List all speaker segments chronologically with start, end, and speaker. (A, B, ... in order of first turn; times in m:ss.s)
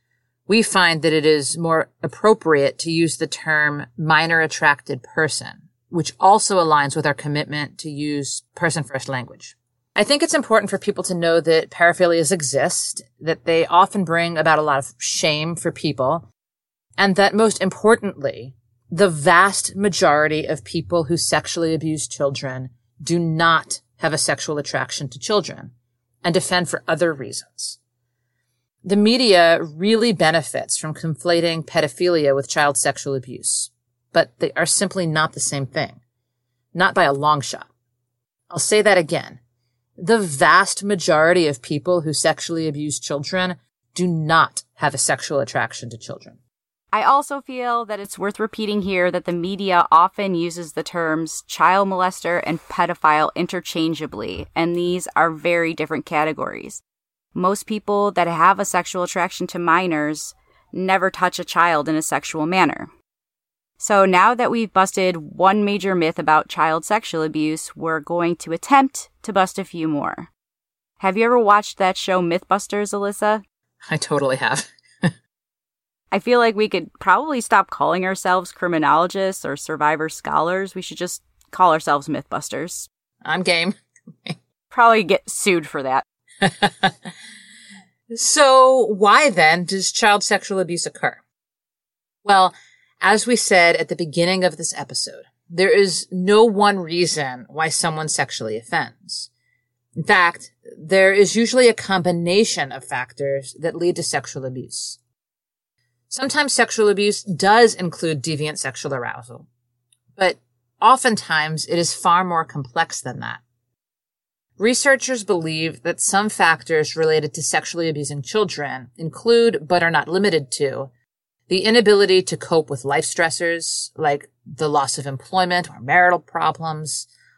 0:00.5-0:16.3 A
0:17.0-0:25.7 A
0:26.2-0:27.8 A
0:28.8-0:36.0 A
0:36.7-0:37.7 A
0:38.5-0:39.4 A
0:40.0-0:46.4 A
0:46.9-0:56.8 B
0:57.4-1:02.9 B
1:03.8-1:10.3 B
1:11.0-1:13.4 B
1:13.9-1:15.1 A
1:16.1-1:22.9 B
1:23.2-1:24.4 A
1:24.7-1:26.0 B
1:26.4-1:27.1 A
1:28.1-1:31.2 A
1:32.2-1:39.3 A
1:40.0-1:45.0 A
1:46.1-1:49.5 A
1:50.2-1:53.4 A
1:54.6-2:00.9 A
2:01.5-2:07.1 A